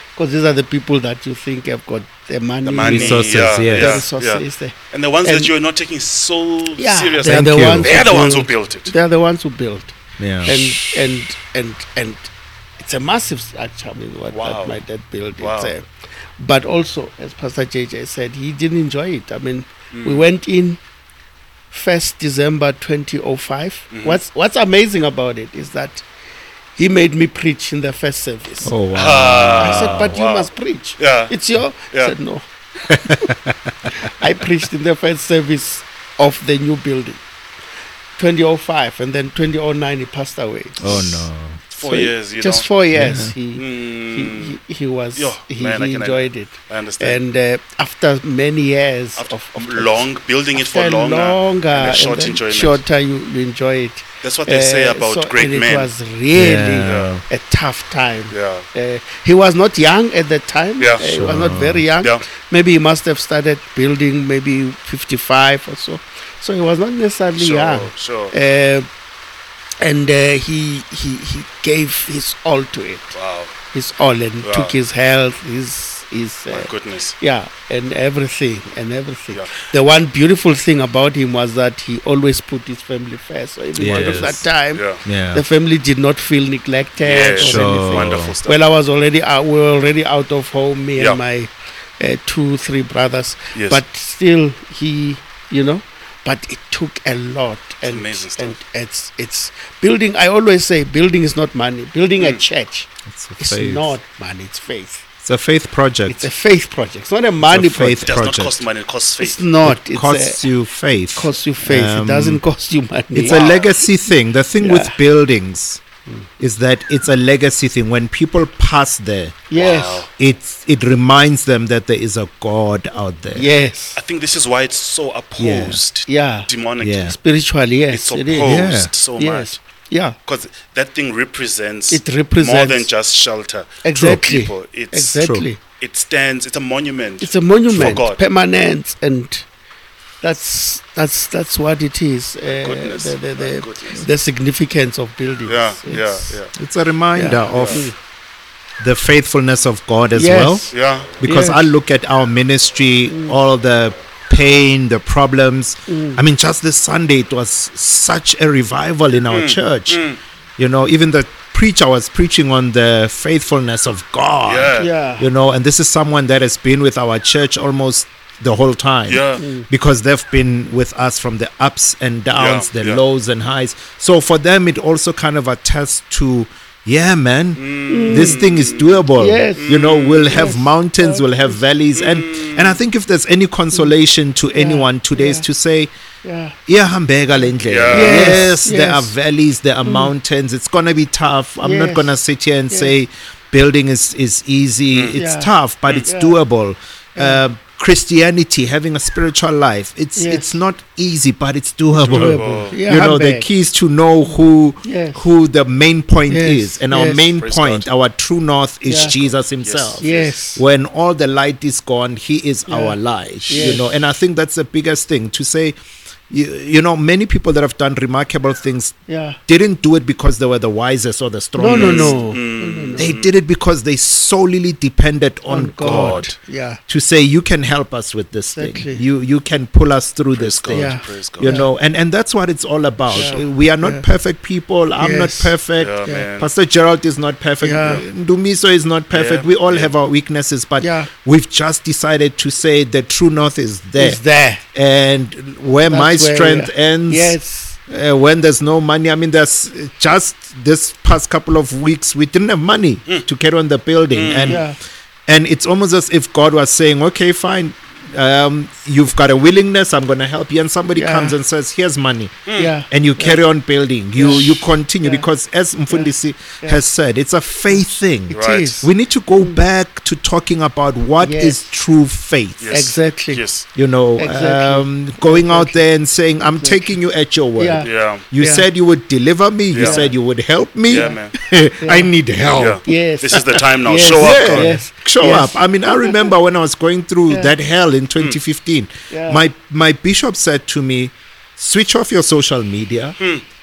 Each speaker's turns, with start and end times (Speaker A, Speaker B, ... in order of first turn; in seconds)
Speaker A: 0.2-5.5, 6.8-15.9, 16.4-20.8, 21.7-26.1, 26.8-28.7, 29.6-33.3, 33.9-37.2, 38.2-41.3, 41.8-68.9, 69.8-73.2, 73.7-105.0, 106.1-108.1, 109.2-110.5, 111.1-113.5, 114.6-115.0, 119.5-120.1, 123.3-124.0, 126.1-126.5, 127.0-130.2, 131.9-132.9, 133.8-135.6, 137.2-139.5, 140.2-146.4, 147.2-148.0, 150.1-151.7, 153.1-153.4, 155.9-156.2, 164.8-165.3, 169.4-169.7, 177.9-178.5, 179.2-179.7, 180.3-181.6, 184.6-185.5, 186.2-186.6, 187.9-189.1, 189.8-190.1, 191.6-192.2, 195.2-195.5, 196.1-196.4, 197.2-197.4, 200.2-200.6, 202.0-203.5, 204.8-205.2, 206.3-207.3, 208.9-209.1, 210.0-210.6, 212.7-213.0, 213.5-213.9, 219.1-219.4, 221.6-223.2, 225.5-226.8, 228.6-229.0, 230.7-231.7, 233.1-234.1, 235.0-236.3, 237.6-238.0, 240.8-241.1, 244.0-244.6, 245.9-247.8, 254.4-254.8, 260.9-261.4, 262.6-263.4, 264.2-265.3, 265.9-266.9, 267.7-269.6, 271.2-271.7, 272.7-273.4, 274.2-275.9, 276.4-276.9, 277.6-278.7, 279.8-280.1, 280.9-281.3, 281.8-282.1, 282.9-286.3, 287.3-287.5, 289.1-289.5
Speaker B: 2.6-8.9, 14.3-14.8, 15.4-15.7, 19.9-20.2, 23.9-24.2, 28.5-31.4, 41.7-42.7, 43.6-44.6, 45.1-47.2, 49.2-52.8, 54.2-55.9, 56.8-57.2, 58.3-58.7, 67.4-68.3, 73.1-73.6, 74.4-74.8, 76.5-77.2, 79.3-79.7, 84.8-85.0, 87.0-88.6, 93.5-93.8, 97.9-98.6, 108.0-109.5, 113.2-113.8, 119.6-120.1, 124.0-127.2, 127.9-129.6, 130.3-135.2, 135.8-138.2, 142.4-144.1, 145.5-146.5, 147.5-147.8, 150.7-151.2, 159.3-160.2, 164.4-164.9, 169.1-169.4, 172.3-173.0, 177.6-179.1, 179.6-180.4, 182.0-182.8, 187.6-188.5, 194.9-195.2, 202.1-202.8, 207.3-207.9, 208.9-210.4, 213.4-213.9, 221.7-223.3, 225.8-226.4, 230.3-231.6, 233.1-233.4, 235.8-236.5, 239.1-239.9, 254.1-254.6, 262.5-262.7, 268.3-268.9, 272.6-273.7, 277.8-278.2, 279.7-280.0, 280.9-281.3, 282.6-284.8
Speaker C: 2.8-4.0, 7.2-8.0, 10.2-10.6, 28.6-30.1, 32.9-34.3, 40.8-41.6, 42.9-43.3, 56.3-57.2, 61.0-61.9, 83.8-84.5, 85.0-85.4, 87.4-88.4, 103.1-104.0, 105.2-106.3, 107.4-108.6, 109.7-112.4, 113.1-115.8, 116.4-119.4, 120.2-123.5, 125.4-125.8, 126.8-127.2, 128.4-128.9, 133.9-134.2, 135.2-135.5, 137.7-138.0, 146.6-147.9, 148.8-160.0, 160.6-185.9, 186.7-215.8, 216.3-222.3, 223.0-226.3, 226.9-244.2, 244.7-254.7, 255.3-272.8, 273.8-282.8, 283.4-293.2